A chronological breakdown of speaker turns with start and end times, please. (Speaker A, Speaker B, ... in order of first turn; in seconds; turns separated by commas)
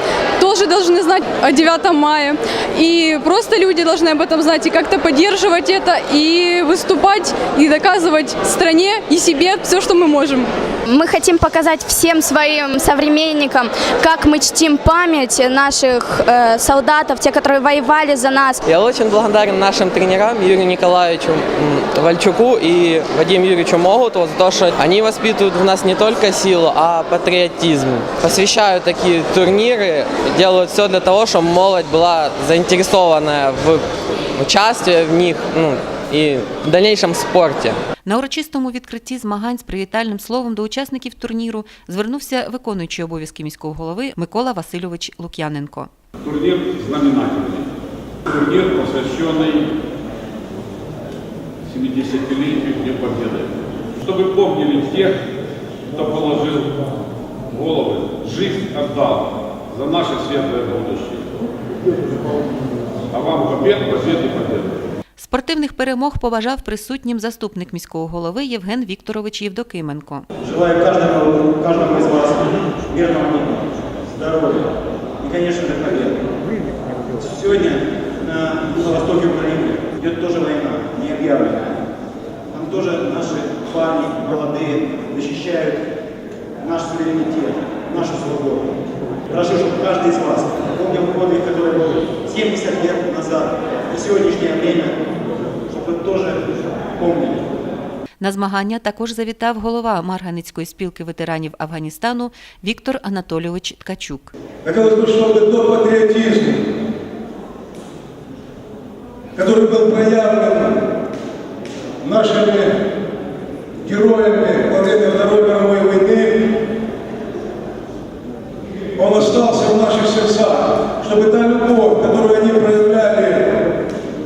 Speaker A: 0.4-10.5, Speaker B: 10.9-18.6, Speaker C: 18.6-33.8, Speaker C: 34.4-37.8, Speaker D: 38.0-45.9, Speaker E: 46.2-47.7, Speaker E: 48.3-49.7, Speaker E: 51.6-55.2, Speaker E: 55.9-56.9, Speaker E: 57.5-61.3, Speaker E: 63.1-64.9, Speaker D: 65.2-70.3, Speaker F: 70.4-76.2, Speaker F: 77.1-81.8, Speaker F: 82.5-85.8, Speaker F: 86.6-88.7, Speaker F: 89.3-95.0, Speaker F: 95.7-97.4, Speaker D: 98.2-104.3, Speaker G: 104.6-106.7, Speaker G: 109.3-110.9, Speaker G: 112.0-112.8, Speaker G: 113.8-116.6, Speaker G: 119.0-123.7